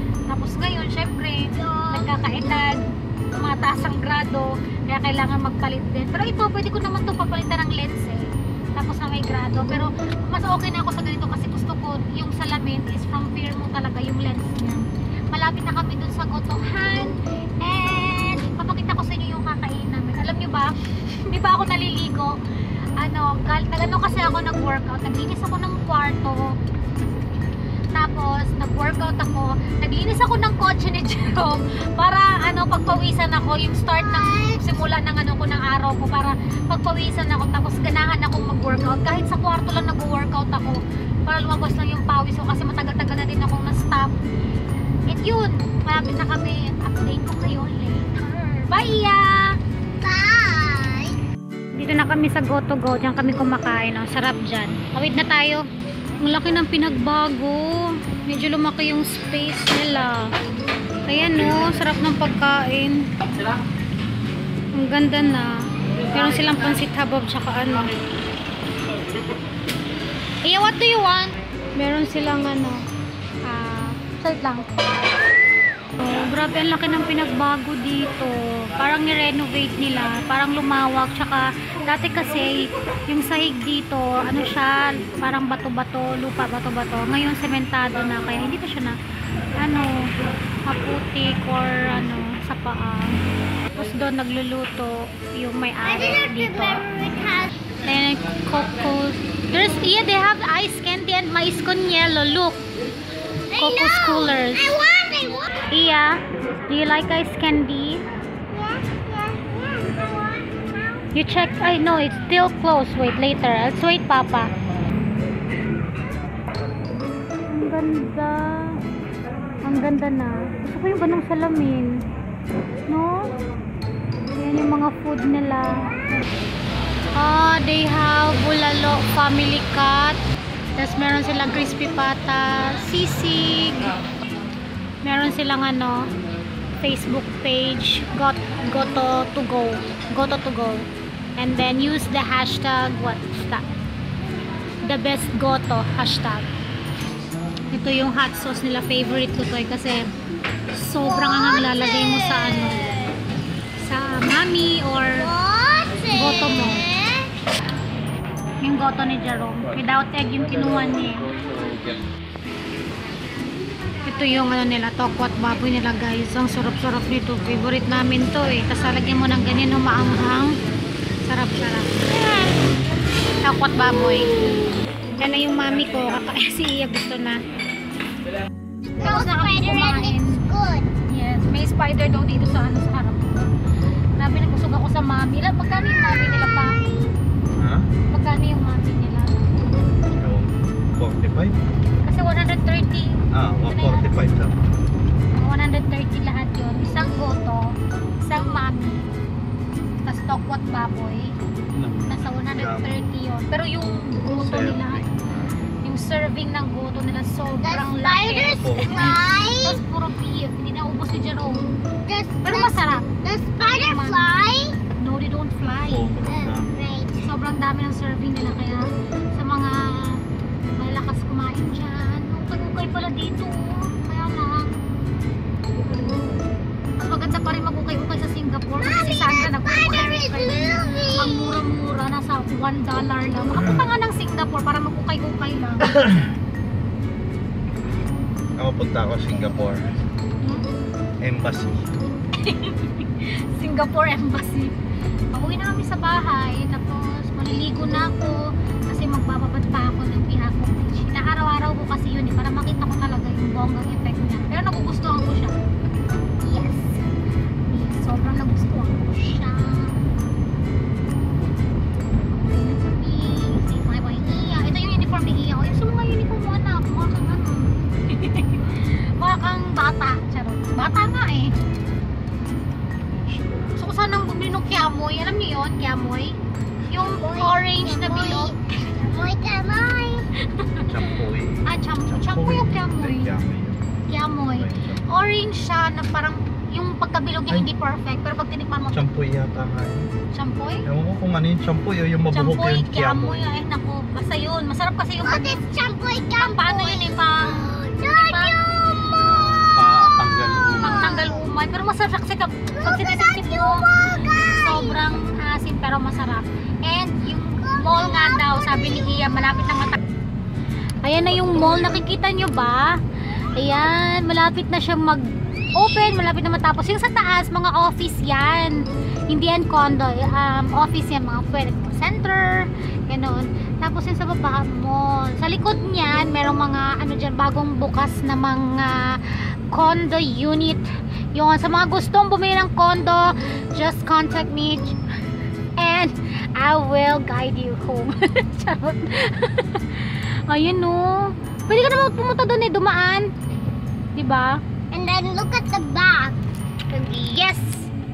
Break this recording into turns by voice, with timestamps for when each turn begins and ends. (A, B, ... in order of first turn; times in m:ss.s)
0:00.3-0:22.4 A
0:01.5-0:02.2 B
0:23.0-0:26.6 A
0:28.0-0:44.2 A
0:33.9-0:34.9 B
0:45.1-0:49.6 A
0:50.0-0:51.2 B
0:51.7-0:55.7 A
0:56.2-1:00.3 A
1:01.1-1:03.1 A
1:04.8-1:05.5 A
1:06.1-1:07.9 A
1:10.4-1:12.8 A
1:13.5-1:14.7 A
1:16.0-1:29.0 A
1:29.6-1:30.1 A
1:30.6-1:33.2 A
1:33.8-1:36.8 A
1:35.8-1:37.5 B
1:37.8-1:42.6 A
1:43.5-1:45.7 B
1:43.6-1:44.8 A
1:45.7-1:48.0 A
1:48.5-1:51.1 B
1:51.1-1:54.5 A
1:57.5-1:58.8 A
1:59.6-2:02.0 A
2:02.9-2:03.3 A
2:04.4-2:06.2 A
2:07.2-2:10.2 A
2:10.8-2:13.9 A
2:15.0-2:16.1 A
2:16.8-2:23.6 A
2:24.8-2:26.5 A
2:27.7-2:30.1 A
2:30.7-2:32.8 A
2:31.0-2:33.2 B
2:33.8-2:35.3 A
2:35.2-2:37.3 B
2:36.1-2:36.8 A
2:38.6-2:41.3 A
2:40.5-2:42.0 C
2:44.0-2:50.6 A
2:51.2-2:52.4 A
2:52.2-2:52.5 B
2:53.4-2:54.4 A
2:54.0-2:54.6 B
2:55.2-2:57.4 A
2:58.9-3:00.9 B
2:59.0-3:00.4 A
3:01.1-3:03.5 A
3:04.2-3:06.8 A
3:05.7-3:07.1 B
3:07.5-3:07.9 C
3:08.1-3:09.5 A
3:10.1-3:11.6 C
3:12.0-3:14.1 A
3:13.3-3:14.7 C
3:15.3-3:19.0 A
3:20.0-3:21.4 A
3:21.7-3:23.0 C
3:22.1-3:25.0 A
3:24.3-3:25.5 C
3:25.8-3:31.7 A
3:27.6-3:29.8 B
3:28.6-3:29.2 C
3:32.1-3:34.8 B
3:32.4-3:33.1 A
3:33.6-3:34.3 A
3:35.0-3:36.1 A
3:35.8-3:36.7 C
3:36.2-3:37.3 B
3:37.2-3:40.2 A
3:40.8-3:44.8 A
3:45.8-3:46.5 C
3:45.9-3:46.2 A
3:47.0-3:56.0 A
3:48.8-3:51.6 B
3:53.5-3:53.9 C
3:55.9-3:56.3 C
3:58.6-3:59.9 C
4:01.2-4:01.8 C
4:02.4-4:04.7 A
4:05.3-4:15.6 A
4:16.4-4:17.1 A
4:17.7-4:20.0 A
4:22.3-4:31.5 A
4:33.3-4:33.7 C
4:33.8-4:38.5 A
4:37.0-4:40.3 B
4:40.5-4:40.9 A
4:40.8-4:45.1 C
4:41.7-4:43.3 A
4:44.1-4:49.0 A
4:48.9-4:50.1 C
4:50.3-4:50.9 A
4:50.8-4:53.5 C
4:52.3-4:55.7 A
4:55.2-4:59.6 B
4:56.4-4:58.6 A
4:59.2-5:01.2 C
5:00.6-5:01.4 B
5:00.8-5:03.8 A
5:02.7-5:05.0 B
5:04.4-5:10.0 A
5:07.6-5:09.4 B
5:11.0-5:13.0 A
5:13.5-5:35.0 A
5:13.6-5:13.9 B
5:35.8-5:43.3 A
5:44.2-5:44.6 A
5:44.9-5:46.4 B
5:46.9-5:47.9 A